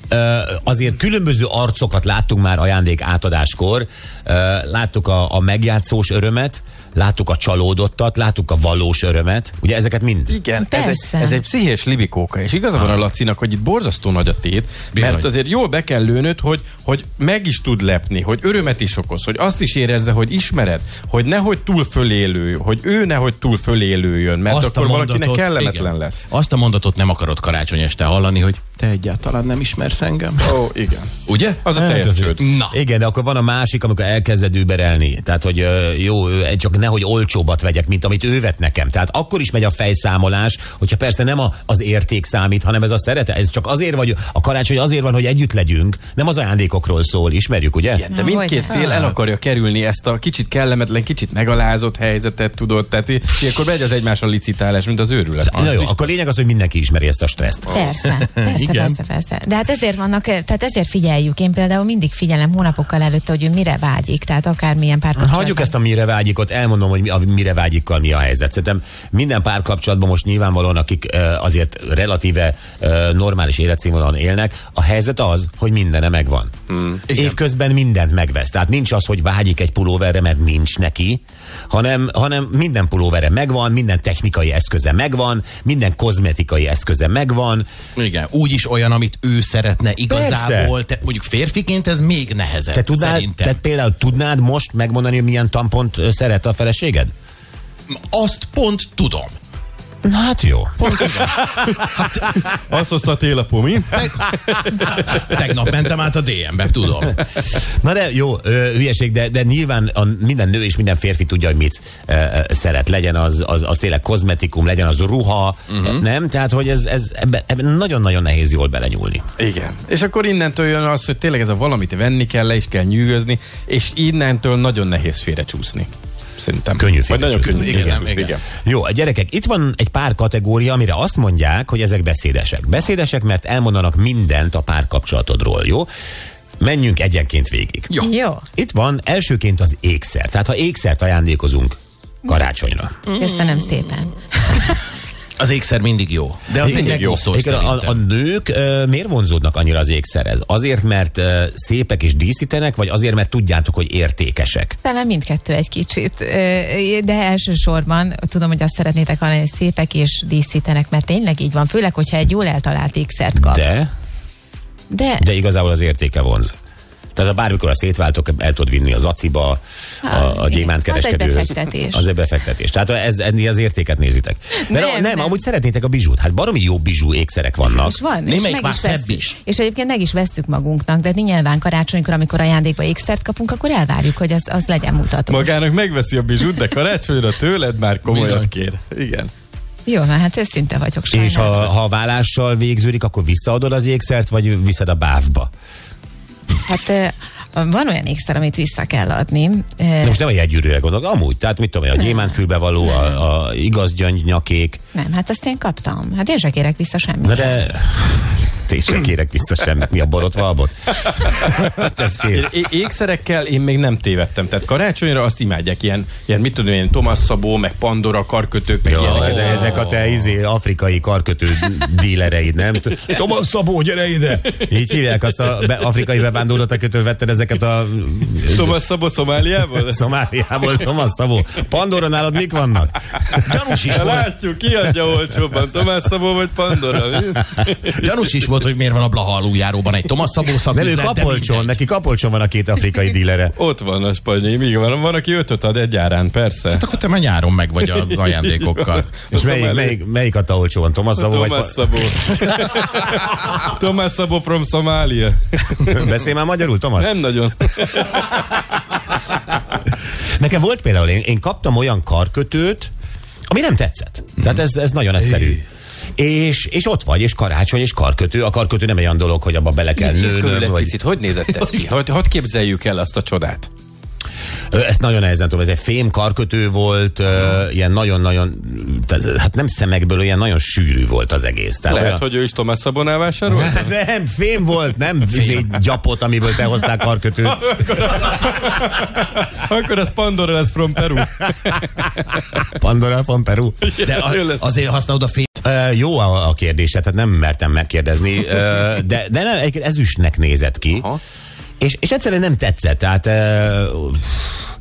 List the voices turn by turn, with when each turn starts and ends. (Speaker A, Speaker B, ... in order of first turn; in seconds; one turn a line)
Speaker A: 0.1-10.4
Speaker B: 10.3-26.3
Speaker C: 10.6-11.4
Speaker D: 14.9-15.3
Speaker D: 24.5-30.6
Speaker B: 30.4-32.4
Speaker D: 31.2-31.6
Speaker A: 31.7-48.0
Speaker D: 32.4-32.8
Speaker B: 47.9-56.1
Speaker C: 48.1-48.7
Speaker D: 48.8-49.1
Speaker A: 55.5-57.8
Speaker C: 57.7-65.7
Speaker D: 58.3-59.0
Speaker A: 65.2-76.5
Speaker B: 76.7-77.0
Speaker D: 77.1-77.4
Speaker A: 77.1-87.7
Speaker D: 88.0-93.6
Speaker A: 90.1-90.7
Speaker A: 92.7-97.1
Speaker D: 97.9-99.3
Speaker A: 100.0-102.0
Speaker D: 100.8-102.3
Speaker B: 102.3-104.8
Speaker D: 103.9-107.2
Speaker A: 107.6-119.2
Speaker D: 115.7-116.0
Speaker B: 119.4-128.4
Speaker A: 126.8-128.0
Speaker D: 127.6-128.3
Speaker A: 128.6-135.9
Speaker A: 136.6-137.9
Speaker C: 138.0-138.4
Speaker A: 138.5-142.9
Speaker D: 143.1-143.7
Speaker C: 143.1-144.7
Speaker D: 145.4-148.0
Speaker B: 146.6-147.2
Speaker A: 146.6-154.8
Speaker C: 154.8-163.7
Speaker A: 163.3-163.9
Speaker C: 164.9-165.2
Speaker A: 165.2-166.5
Speaker A: 167.1-178.0
Speaker C: 170.0-172.0
Speaker C: 174.6-175.3
Speaker C: 177.7-185.5
Speaker D: 178.2-179.4
Speaker B: 185.3-189.3
Speaker D: 188.1-188.5
Speaker C: 189.8-191.7
Speaker A: 191.1-195.5
Speaker C: 196.6-200.2
Speaker A: 200.0-204.8
Speaker C: 204.9-207.7
Speaker A: 207.2-212.5
Speaker B: 212.3-220.0
Speaker A: 218.8-228.7
Speaker D: 219.1-219.8
Speaker B: 228.5-230.0
Speaker A: 229.8-233.5
Speaker D: 233.3-234.3
Speaker B: 233.9-238.1
Speaker D: 237.9-241.7
Speaker A: 240.7-243.5
Speaker B: 243.5-246.8
Speaker D: 246.7-249.1
Speaker B: 247.9-250.0
Speaker A: 249.3-252.0
Speaker B: 251.2-256.0
Speaker A: 255.8-257.1
Speaker B: 257.0-258.3
Speaker A: 258.1-259.2
Speaker A: 260.3-262.9
Speaker A: 263.5-265.6
Speaker A: 266.2-270.9
Speaker B: 270.0-273.7
Speaker A: 274.7-282.2
Speaker B: 281.9-283.9
Speaker A: 283.4-287.8
Speaker B: 287.6-292.4
Speaker A: 292.6-293.9
Speaker B: 293.8-294.7
Speaker D: 294.0-295.6
Speaker A: 295.6-301.1
Speaker A: 301.8-304.6